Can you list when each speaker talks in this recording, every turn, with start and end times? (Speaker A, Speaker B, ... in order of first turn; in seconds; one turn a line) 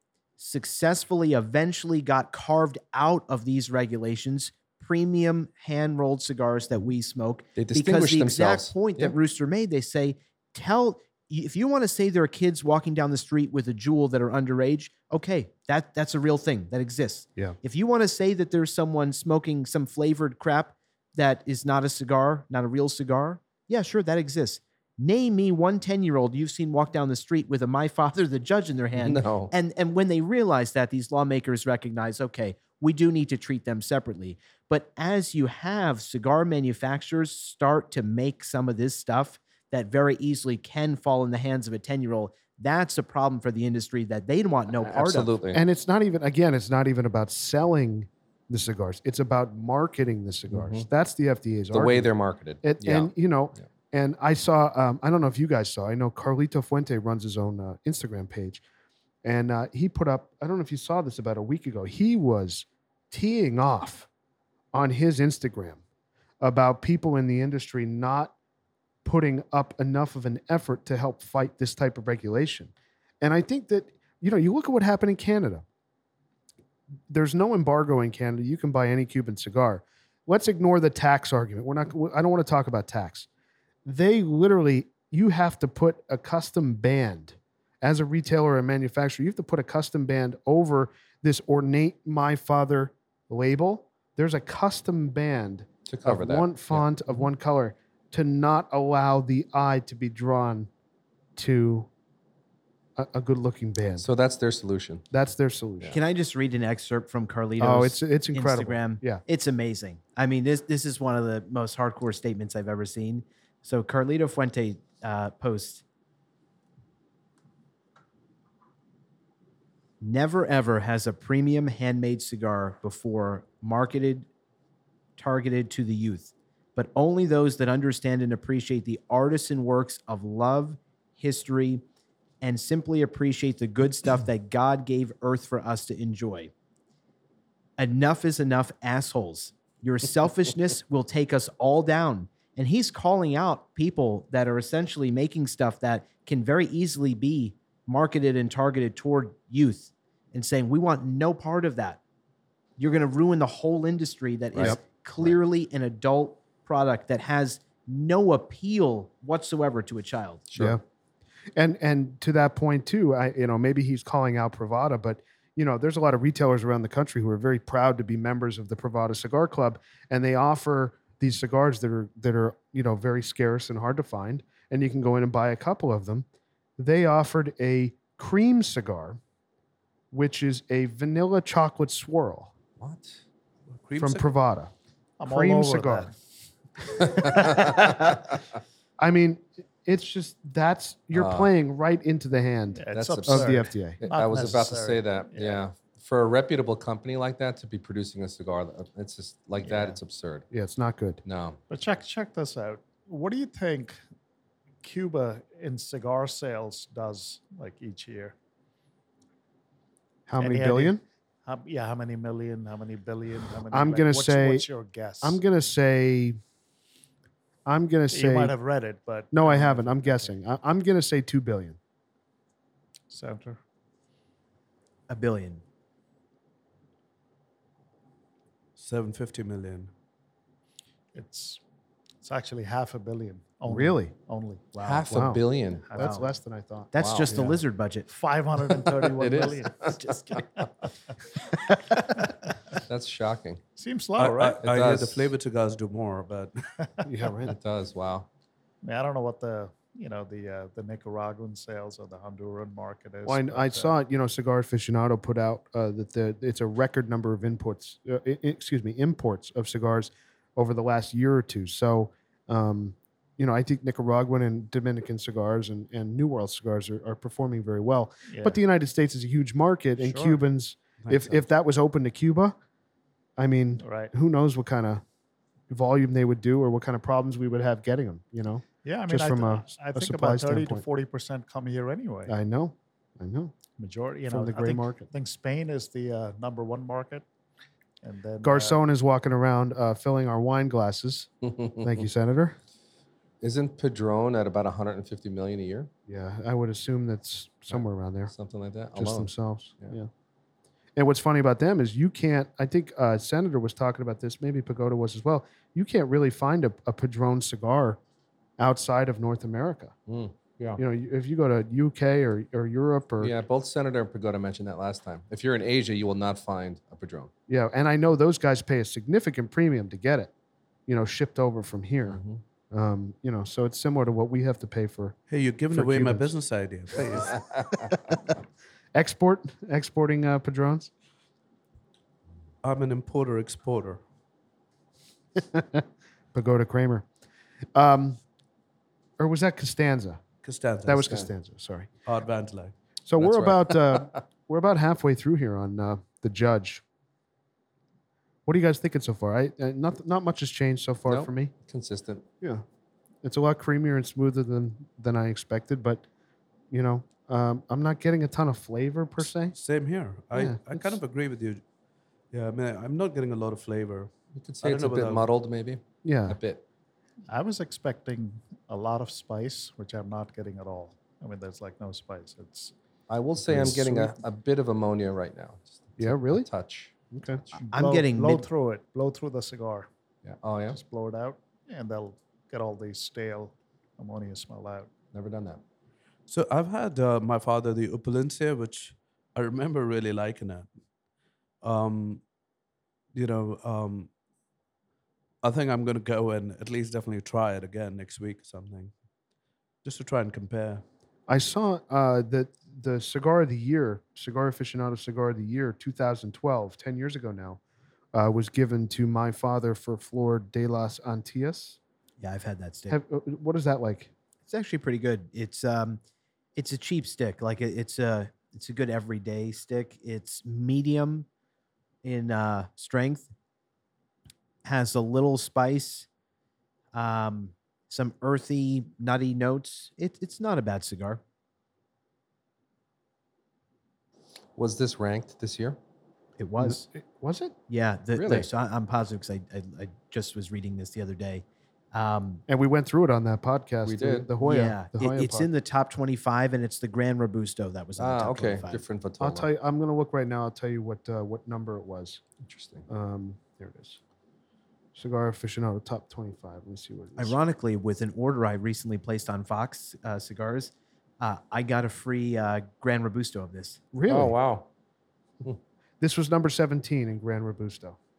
Speaker A: 0.4-45.4
Speaker B: 7.6-9.2
Speaker B: 29.0-29.5
Speaker B: 44.8-45.6
Speaker C: 45.5-58.6
Speaker B: 50.5-50.9
Speaker B: 51.7-53.6
Speaker C: 59.2-64.1
Speaker C: 64.7-65.8
Speaker C: 66.4-68.3
Speaker C: 69.0-75.6
Speaker C: 77.1-83.3
Speaker C: 83.8-100.7
Speaker B: 95.9-96.9
Speaker C: 101.4-101.9
Speaker C: 103.0-104.1
Speaker B: 104.0-105.1
Speaker C: 105.1-106.0
Speaker A: 105.9-115.8
Speaker C: 107.6-109.2
Speaker A: 120.0-124.3
Speaker A: 125.2-131.8
Speaker A: 132.4-136.5
Speaker A: 137.8-152.0
Speaker A: 152.8-160.4
Speaker B: 154.5-155.4
Speaker B: 160.5-160.8
Speaker C: 160.6-160.8
Speaker C: 161.6-176.2
Speaker C: 176.8-179.2
Speaker C: 180.1-182.5
Speaker B: 182.8-183.2
Speaker D: 183.7-184.3
Speaker C: 184.0-184.7
Speaker E: 185.2-186.1
Speaker C: 185.3-186.1
Speaker C: 186.9-187.9
Speaker B: 187.1-188.3
Speaker C: 189.0-194.0
Speaker B: 191.1-191.5
Speaker E: 192.7-195.6
Speaker B: 192.9-200.5
Speaker C: 200.5-201.2
Speaker B: 201.2-201.6
Speaker E: 201.7-204.0
Speaker E: 204.8-208.3
Speaker C: 210.3-211.0
Speaker E: 210.4-215.4
Speaker C: 213.7-214.7
Speaker C: 215.2-216.4
Speaker C: 217.7-218.6
Speaker E: 218.1-220.3
Speaker C: 219.3-221.8
Speaker E: 223.1-223.6
Speaker A: 225.1-225.6
Speaker D: 228.8-229.9
Speaker E: 231.1-231.6
Speaker E: 232.2-234.7
Speaker C: 233.7-234.1
Speaker A: 234.7-235.3
Speaker B: 234.8-235.9
Speaker C: 235.1-237.6
Speaker E: 235.7-236.4
Speaker A: 235.9-236.2
Speaker A: 236.9-238.1
Speaker B: 236.9-237.4
Speaker E: 238.1-240.6
Speaker B: 238.9-240.0
Speaker A: 240.0-240.4
Speaker B: 242.9-243.6
Speaker E: 243.8-244.6
Speaker D: 244.2-246.6
Speaker B: 244.6-245.3
Speaker C: 247.0-247.6
Speaker B: 247.4-248.3
Speaker E: 248.8-253.9
Speaker C: 253.2-272.6
Speaker E: 268.3-268.6
Speaker E: 270.0-270.4
Speaker D: 271.0-271.4
Speaker C: 273.4-275.0
Speaker E: 273.8-274.1
Speaker C: 275.7-280.8
Speaker E: 278.8-282.4
Speaker C: 282.3-283.6
Speaker E: 283.8-287.2
Speaker C: 284.3-285.1
Speaker E: 288.0-288.8
Speaker C: 288.4-292.6
Speaker B: 291.6-292.0
Speaker B: 293.4-295.9
Speaker C: 296.1-298.3
Speaker B: 297.7-299.9
Speaker C: 298.9-300.1
Speaker C: 300.9-308.0
Speaker C: 308.6-309.9
Speaker B: 310.1-310.8
Speaker C: 310.8-313.3
Speaker B: 313.2-317.3
Speaker C: 317.5-320.3
Speaker C: 320.9-325.2
Speaker B: 322.1-322.4
Speaker D: 325.3-327.4
Speaker C: 325.7-326.3
Speaker B: 327.3-327.9
Speaker C: 327.9-328.3
Speaker C: 328.9-330.9
Speaker D: 332.6-334.0
Speaker C: 335.4-337.1
Speaker C: 337.7-338.2
Speaker C: 339.2-340.2
Speaker D: 340.4-341.3
Speaker C: 340.9-341.9
Speaker D: 342.1-342.7
Speaker C: 343.1-346.8
Speaker B: 343.2-344.2
Speaker C: 348.4-351.5
Speaker B: 351.1-352.2
Speaker C: 353.2-356.0
Speaker C: 356.7-359.6
Speaker D: 359.5-361.6
Speaker C: 360.4-361.0
Speaker D: 362.3-365.3
Speaker B: 364.4-366.6
Speaker C: 366.0-366.4
Speaker E: 367.3-372.7
Speaker B: 373.1-377.6
Speaker C: 373.5-374.1
Speaker C: 376.0-376.5
Speaker C: 377.1-377.4
Speaker E: 377.6-379.9
Speaker A: 377.7-378.5
Speaker B: 380.2-380.8
Speaker E: 380.7-384.9
Speaker B: 385.1-385.6
Speaker D: 386.3-390.7
Speaker D: 391.6-392.2
Speaker D: 393.1-394.1
Speaker D: 395.4-398.9
Speaker D: 399.8-400.8
Speaker C: 401.3-407.6
Speaker C: 408.1-411.8
Speaker A: 412.2-413.0
Speaker C: 412.9-414.1
Speaker A: 414.5-416.0
Speaker A: 416.6-421.3
Speaker A: 422.0-423.3
Speaker A: 424.6-426.1
Speaker A: 426.9-431.2
Speaker B: 434.6-435.8
Speaker A: 436.4-436.9
Speaker C: 436.6-437.6
Speaker A: 437.7-442.4
Speaker B: 438.1-438.5
Speaker C: 442.5-445.5
Speaker B: 443.9-444.3
Speaker A: 444.4-448.8
Speaker B: 448.0-449.5
Speaker C: 449.2-452.2
Speaker B: 452.4-452.9
Speaker C: 452.9-454.0
Speaker C: 454.9-457.4
Speaker A: 457.2-463.8
Speaker C: 463.9-464.4
Speaker B: 464.1-464.7
Speaker C: 466.0-468.0